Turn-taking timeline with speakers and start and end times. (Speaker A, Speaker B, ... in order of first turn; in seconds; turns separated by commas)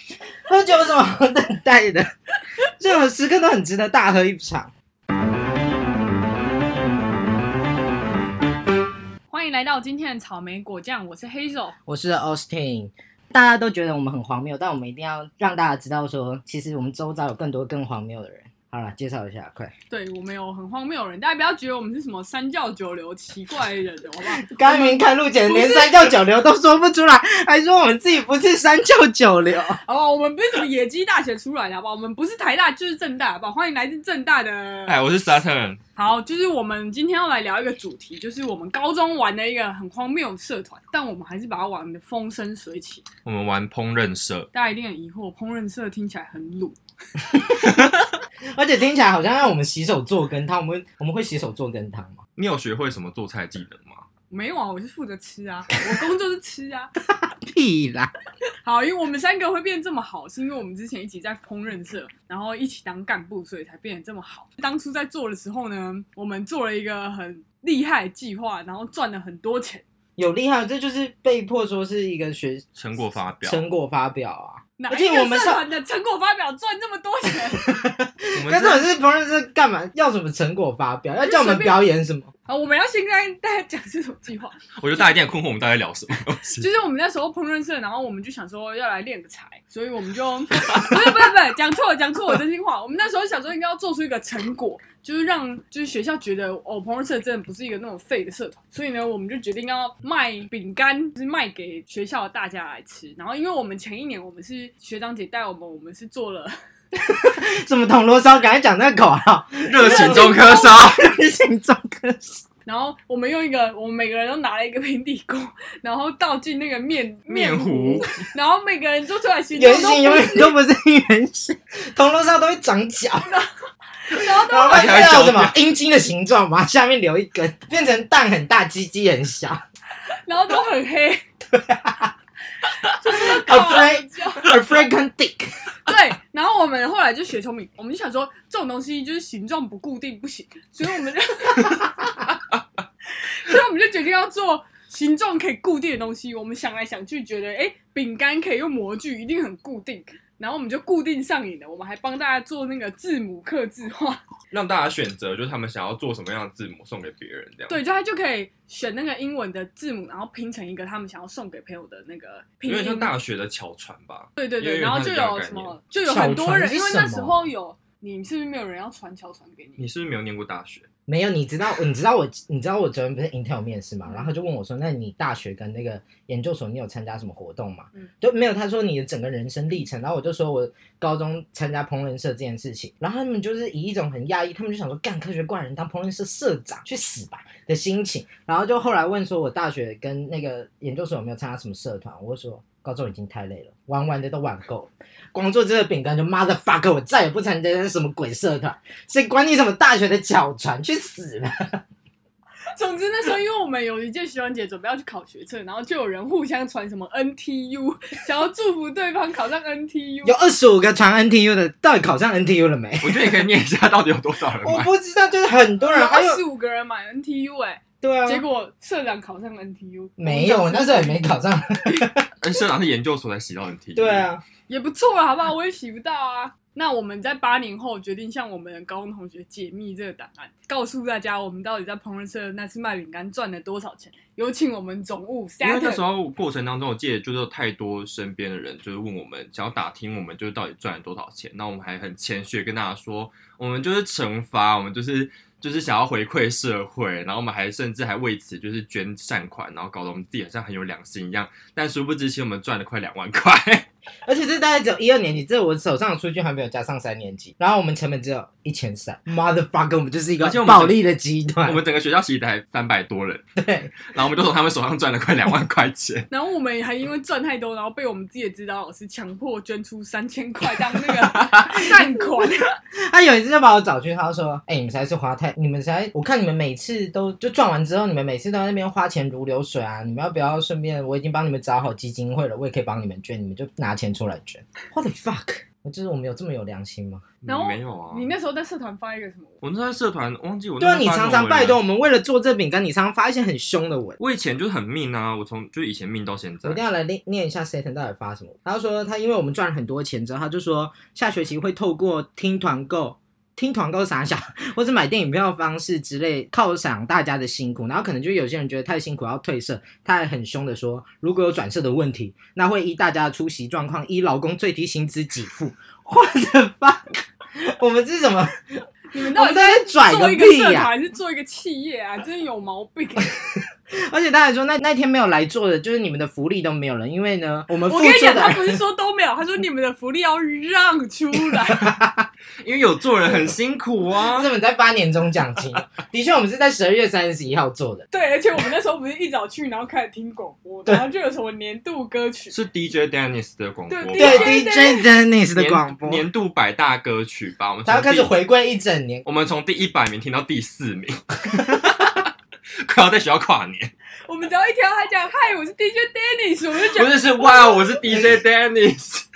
Speaker A: 0.5-2.1, Speaker A: 2.8-4.7, Speaker B: 9.3-11.8, Speaker A: 11.9-19.7, Speaker B: 19.9-26.2, Speaker A: 24.3-29.8, Speaker B: 29.8-35.0, Speaker C: 34.9-35.8, Speaker B: 36.0-43.1, Speaker C: 43.2-44.5, Speaker B: 44.5-46.8, Speaker C: 47.6-48.1, Speaker A: 48.5-52.2, Speaker C: 52.4-54.0, Speaker B: 54.3-56.9, Speaker A: 57.2-58.1, Speaker B: 58.6-69.8, Speaker A: 70.2-72.9, Speaker C: 72.8-73.7, Speaker A: 73.4-75.7, Speaker B: 74.8-77.8, Speaker A: 77.7-82.3, Speaker C: 78.3-78.9, Speaker B: 81.2-81.8, Speaker B: 82.5-84.7, Speaker C: 84.8-86.7, Speaker B: 86.6-106.5, Speaker C: 90.7-91.0, Speaker A: 107.0-112.4, Speaker C: 109.7-111.1, Speaker B: 109.8-110.7, Speaker B: 112.7-120.6, Speaker C: 117.3-118.2, Speaker A: 119.5-123.3, Speaker B: 124.1-125.3, Speaker C: 124.1-125.6, Speaker A: 124.5-129.6, Speaker B: 130.3-131.2, Speaker A: 131.5-132.1, Speaker B: 133.0-134.6, Speaker A: 133.1-135.5, Speaker B: 135.9-142.3, Speaker B: 143.1-154.2, Speaker C: 154.5-157.8, Speaker B: 157.7-163.1, Speaker C: 162.7-165.8, Speaker B: 164.4-169.8, Speaker A: 166.0-167.5, Speaker C: 169.8-170.8, Speaker A: 171.1-201.8, Speaker B: 174.1-174.4, Speaker B: 202.8-210.4, Speaker A: 210.2-213.4, Speaker C: 213.0-214.9, Speaker A: 214.6-216.4, Speaker B: 215.8-221.3, Speaker A: 218.0-218.4, Speaker A: 220.2-222.3, Speaker C: 222.4-224.3, Speaker A: 223.9-224.4, Speaker B: 224.7-236.0, Speaker C: 235.6-253.9, Speaker A: 254.3-261.8, Speaker C: 260.4-261.1, Speaker C: 261.6-263.5, Speaker A: 263.6-264.0, Speaker C: 264.0-266.3, Speaker B: 266.3-272.8, Speaker C: 271.0-271.8, Speaker A: 273.1-287.3, Speaker C: 287.4-288.3, Speaker B: 287.5-289.5, Speaker C: 289.6-291.8, Speaker A: 290.8-294.2, Speaker C: 294.2-296.8, Speaker A: 296.6-318.6, Speaker B: 319.1-323.3, Speaker A: 319.3-320.9, Speaker A: 324.1-328.8, Speaker B: 327.9-331.9, Speaker A: 331.7-332.3, Speaker C: 332.6-334.5, Speaker A: 334.3-338.1, Speaker B: 338.1-342.6, Speaker C: 342.5-344.6, Speaker B: 343.9-345.1, Speaker A: 344.2-346.2, Speaker C: 345.6-348.3, Speaker A: 347.9-349.3, Speaker C: 349.3-353.9, Speaker B: 354.3-358.0, Speaker C: 356.8-359.2, Speaker A: 358.1-358.4